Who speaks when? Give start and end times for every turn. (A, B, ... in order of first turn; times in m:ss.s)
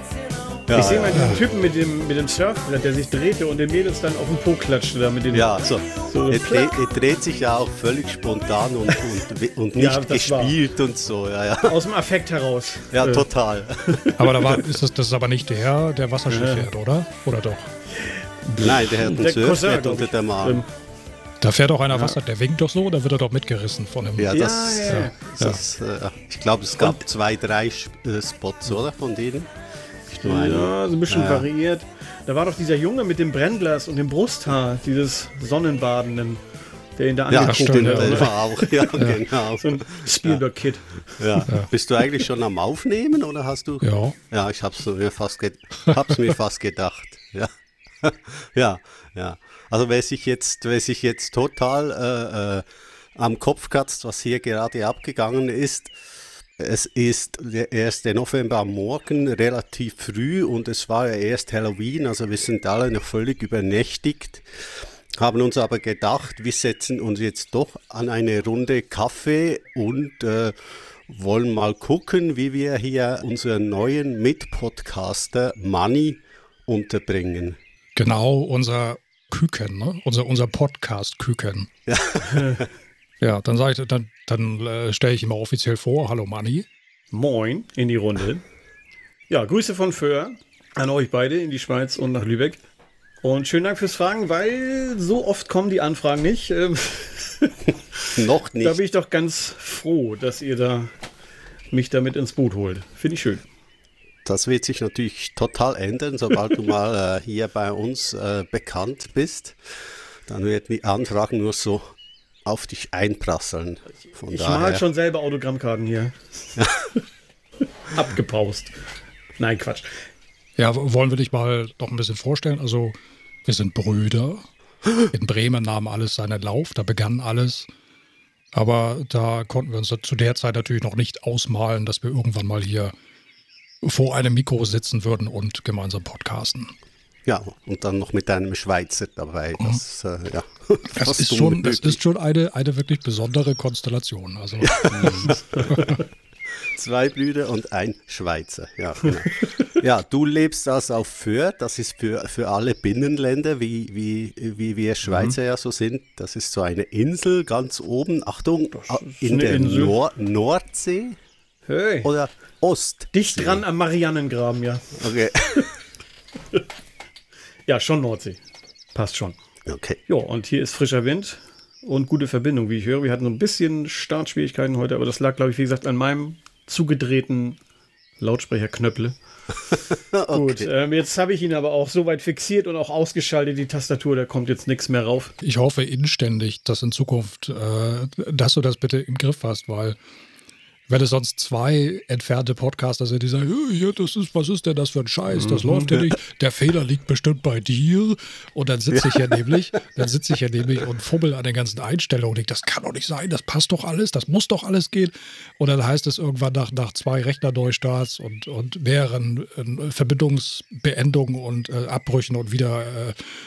0:00.7-0:01.4 A
0:00.7-0:06.7 B
0:05.3-0:11.8 A
0:09.8-0:10.6 B
0:11.6-0:13.3 B
0:12.9-0:13.8 A
0:13.9-0:14.3 B
0:14.2-0:17.7 C
0:16.3-0:16.7 B
0:17.9-0:20.7 B
0:18.6-0:20.6 A
0:21.4-0:25.6 C
0:21.9-0:22.2 B
0:24.2-0:29.5 A
0:24.3-0:25.3 B
0:30.1-0:31.5 A
0:30.2-0:36.4 B
0:37.0-0:41.5 B
0:37.3-0:40.4 A
0:37.4-0:38.3 C
0:38.9-0:39.2 C
0:41.2-0:47.5 A
0:43.8-0:44.2 C
0:48.0-0:55.9 A
0:56.6-1:04.5 A
1:05.2-1:17.6 A
1:18.0-1:21.7 C
1:21.9-1:22.6 A
1:22.2-1:22.7 B
1:23.2-1:26.7 C
1:27.1-1:28.4 B
1:29.3-1:32.6 B
1:33.2-1:40.9 B
1:38.2-1:38.8 A
1:41.7-1:43.4 B
1:44.2-1:49.6 A
1:50.3-1:51.8 A
1:52.4-1:54.8 A
1:54.3-1:56.6 B
1:57.9-1:58.7 B
1:59.4-2:00.0 B
2:00.6-2:04.4 C
2:05.0-2:07.7 C
2:08.5-2:12.9 C
2:13.8-2:16.7 C
2:17.3-2:22.0 A
2:20.9-2:25.9 C
2:24.6-2:25.3 A
2:24.9-2:25.9 B
2:26.7-2:41.2 A
2:29.0-2:29.6 B
2:35.0-2:35.4 B
2:38.7-2:40.0 B
2:41.7-2:42.1 B
2:42.0-2:43.6 A
2:43.1-2:45.1 B
2:45.0-2:45.7 A
2:47.7-2:48.4 B
2:48.9-2:49.4 B
2:49.7-2:50.0 A
2:50.1-2:57.6 B
2:58.2-2:59.2 B
3:00.1-3:00.7 A
3:00.3-3:05.3 B
3:05.4-3:10.0 C
3:10.9-3:33.2 C
3:15.3-3:15.9 B
3:18.9-3:19.3 A